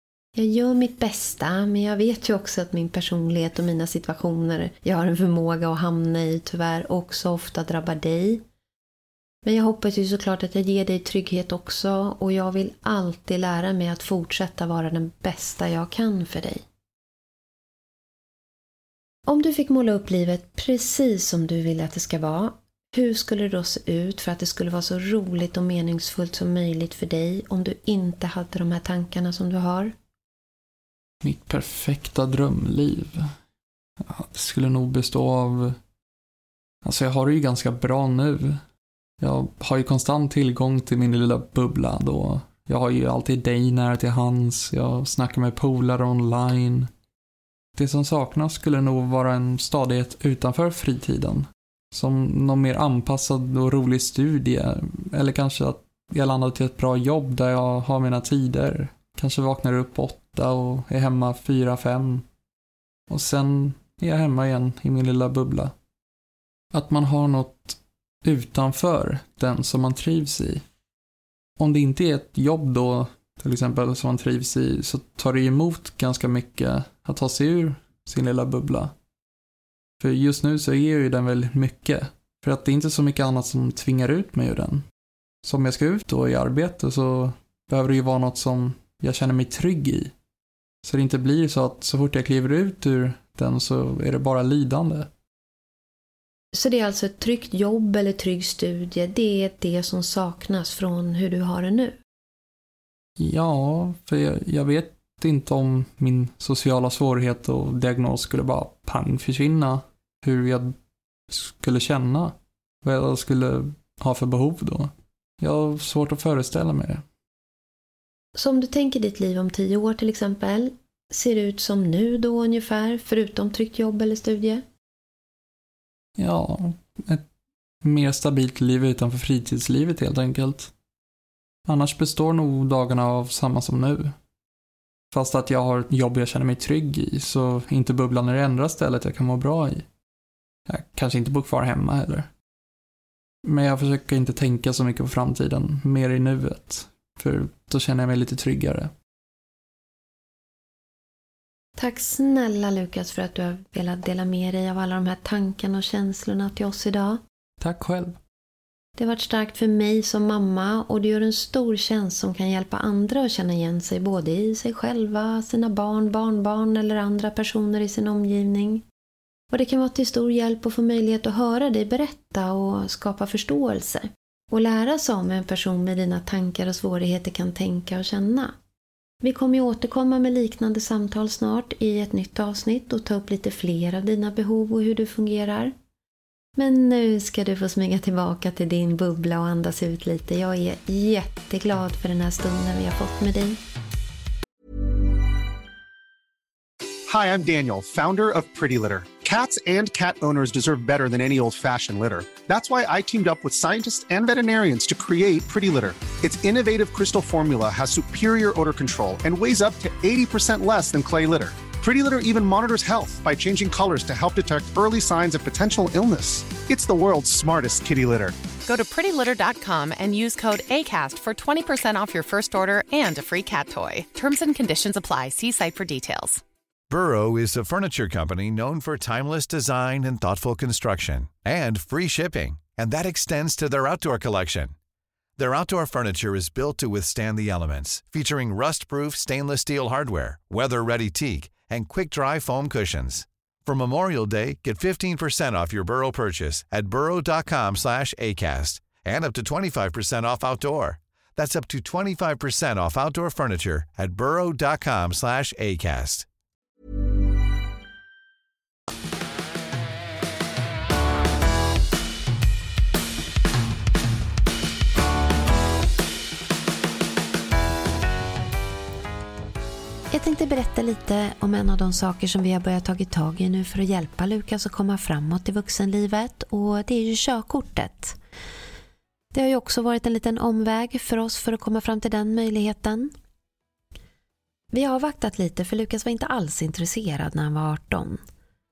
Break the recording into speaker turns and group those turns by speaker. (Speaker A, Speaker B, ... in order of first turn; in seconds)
Speaker A: 0.3-8.4, 9.4-16.6, 19.2-29.9, 96.5-102.0, 118.3-124.6, 151.8-157.2, 159.0-168.8, 169.5-178.5, 179.2-185.7, 186.6-193.6, 270.1-278.2, 279.3-283.1, 284.7-288.2
Speaker B: 31.2-33.3, 34.0-35.8, 36.8-38.6, 39.2-46.9, 47.7-62.2, 63.1-65.7, 66.7-70.6, 71.6-78.9, 80.0-84.8, 85.4-90.1, 90.8-95.1, 103.2-110.7, 111.3-117.0, 126.2-127.2, 127.8-130.7, 131.7-134.2, 135.1-139.8, 140.7-142.3, 143.4-148.9, 157.6-158.2
Speaker C: 197.1-218.3
Speaker D: 218.7-226.4
Speaker E: 226.9-234.7, 235.4-256.2